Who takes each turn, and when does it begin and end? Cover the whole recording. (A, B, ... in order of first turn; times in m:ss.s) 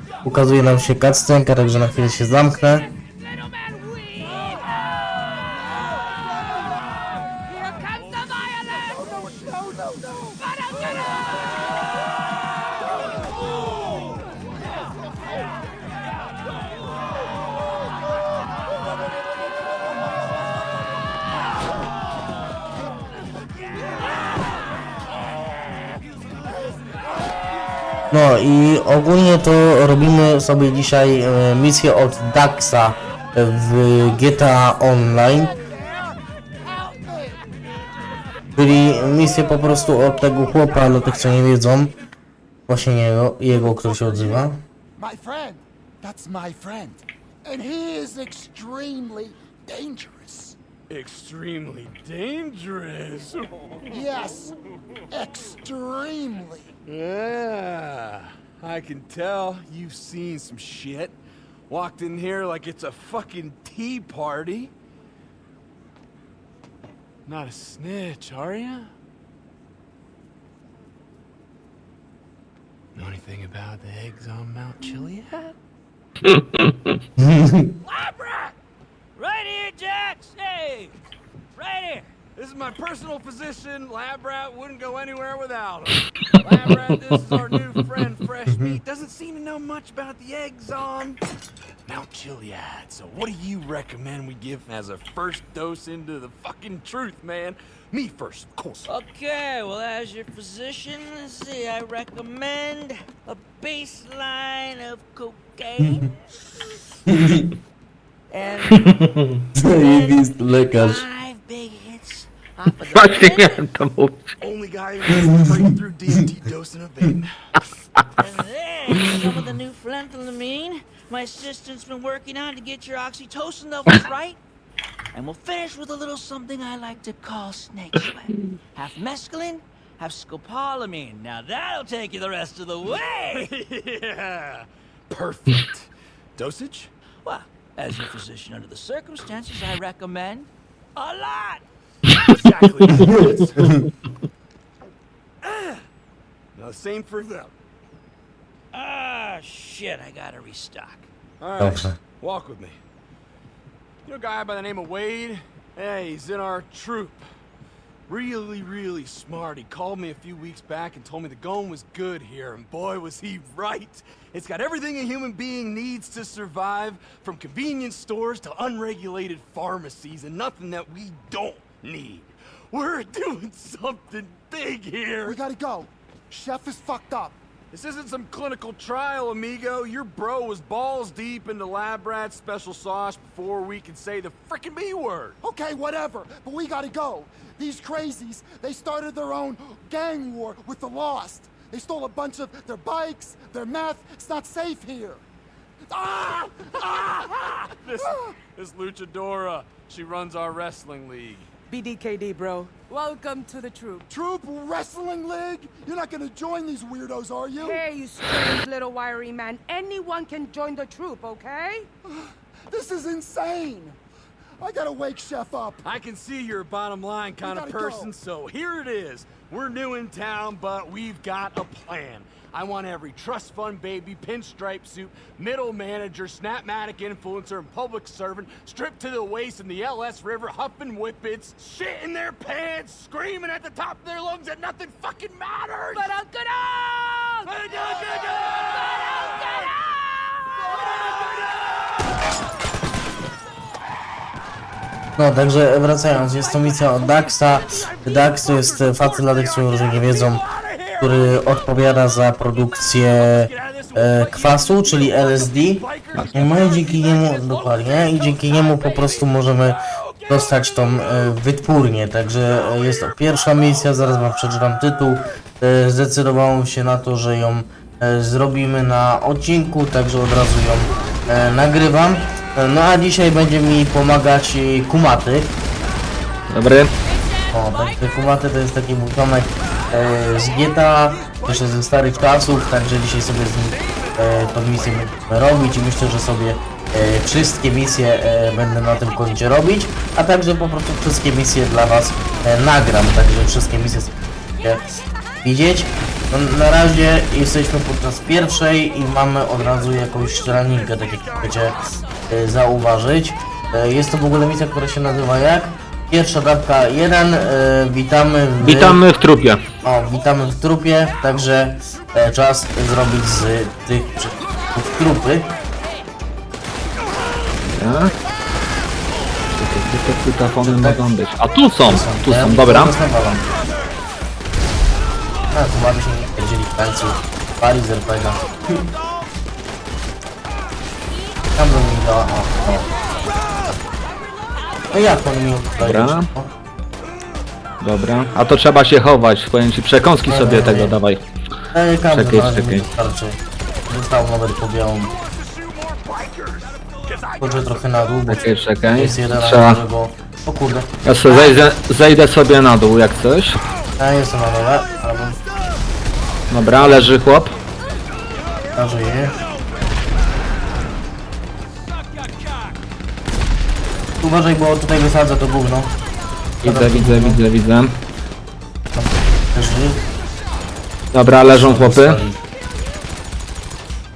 0:00.2-0:02.9 A
0:02.6-0:05.4 B
0:07.5-0:09.6 B
0:09.4-0:10.2 C
0:10.4-0:11.4 B
0:28.1-0:35.5 A
0:35.4-0:37.5 C
0:38.6-0:41.9 A
0:42.7-0:44.6 A
0:43.8-0:50.6 C
0:50.9-0:54.0 D
0:53.9-0:54.6 C
0:55.1-0:56.7 C
0:56.9-1:01.2 D
1:01.7-1:04.7 D
1:07.3-1:08.9 D
1:13.0-1:15.6 D
1:16.3-1:16.8 E
1:17.2-1:17.7 A
1:17.8-1:18.6 F
1:19.2-1:21.0 F
1:21.6-1:22.1 F
1:22.4-1:31.2 D
1:26.4-1:26.9 F
1:31.9-1:39.0 D
1:38.9-1:46.1 F
1:47.1-1:47.5 A
1:48.3-1:49.1 F
1:49.6-1:51.1 A
1:49.6-1:53.6 F
1:52.9-1:54.3 E
1:54.4-1:57.4 D
1:55.1-1:55.4 A
1:58.2-2:04.4 F
2:05.1-2:13.5 F
2:13.2-2:16.9 D
2:17.2-2:21.6 F
2:22.1-2:23.8 D
2:22.9-2:23.9 A
2:25.5-2:25.8 D
2:26.6-2:27.5 D
2:28.7-2:31.1 F
2:31.4-2:32.8 D
2:31.6-2:32.0 A
2:34.1-2:37.2 D
2:38.1-2:55.4 D
2:55.2-2:57.4 C
2:57.7-3:05.4 D
3:05.4-3:15.2 C
3:15.9-3:18.4 C
3:16.9-3:21.5 D
3:21.7-3:24.1 B
3:24.1-3:27.9 C
3:27.6-3:31.9 B
3:32.1-3:34.0 C
3:34.6-3:35.8 C
3:35.8-3:56.1 D
3:37.4-3:38.1 C
3:56.0-3:57.7 B
3:57.5-3:59.1 D
3:58.5-4:00.1 B
4:00.8-4:01.5 D
4:05.2-4:10.4 A
4:06.4-4:11.4 D
4:11.0-4:35.6 A
4:13.2-4:21.4 D
4:22.5-4:24.1 D
4:36.5-4:36.9 E
4:37.1-4:38.0 F
4:37.5-4:54.8 A
4:41.1-4:41.6 D
4:43.7-4:45.1 D
4:55.4-5:09.0 A
5:08.6-5:09.6 E
5:09.8-5:15.5 A
5:17.8-5:18.1 E
5:19.6-5:22.9 E
5:20.6-5:21.0 A
5:21.8-5:23.5 A
5:25.5-5:28.8 A
5:31.6-5:32.9 A
5:34.3-5:35.2 F
5:34.9-5:36.5 A
5:35.8-5:36.3 E
5:37.8-5:41.2 E
5:40.3-5:41.0 A
5:41.7-5:45.1 A
5:42.1-5:42.9 E
5:45.0-5:48.7 D
5:47.4-5:50.9 A
5:48.3-5:49.8 E
5:51.0-5:53.6 E
5:54.0-5:55.4 A
5:54.6-5:55.4 D
5:56.5-5:57.5 E
5:58.7-5:59.4 A
5:58.9-5:59.5 D
6:04.2-6:05.9 A
6:06.6-6:07.9 E
6:06.6-6:07.4 A
6:08.9-6:10.0 A
6:11.1-6:12.2 E
6:11.4-6:12.4 A
6:12.6-6:13.0 B